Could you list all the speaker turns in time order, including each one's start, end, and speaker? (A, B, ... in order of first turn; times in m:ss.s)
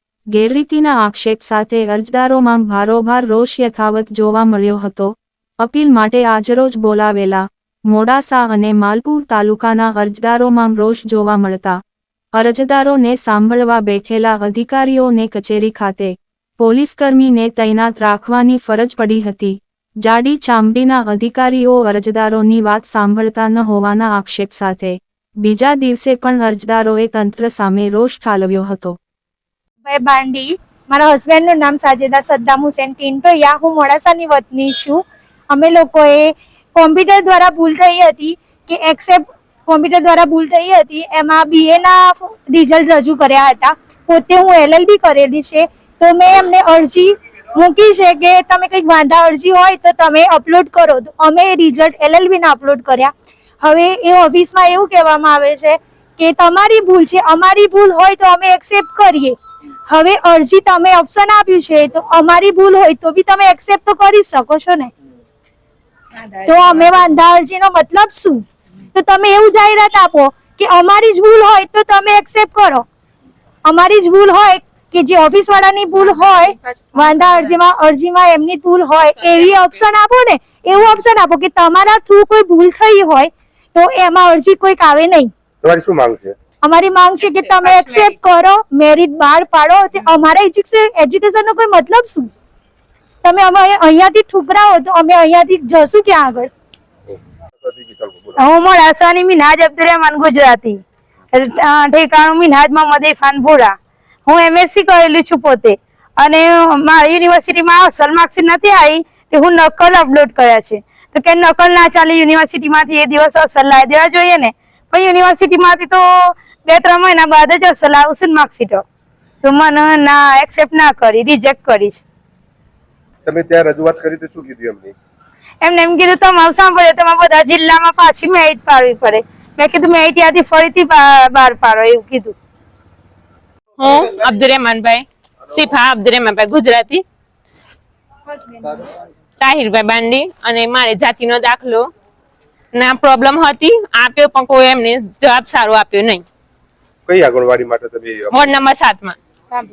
0:00.3-0:11.8 A
0:12.3-0:29.0 A
0:29.8-0:59.4 B
0:59.9-1:04.9 B
1:06.4-1:12.8 B
1:13.6-1:25.3 B
1:25.6-1:26.3 C
1:26.6-1:32.3 B
1:33.2-1:36.5 B
1:37.1-1:38.4 C
1:38.4-1:40.8 D
1:41.3-1:43.8 D
1:44.3-1:58.8 D
1:59.4-2:02.0 D
2:03.2-2:04.9 C
2:05.6-2:12.3 D
2:13.8-2:17.0 E
2:18.3-2:18.6 B
2:19.4-2:21.9 E
2:22.7-2:26.2 E
2:27.1-2:28.6 C
2:28.3-2:29.2 E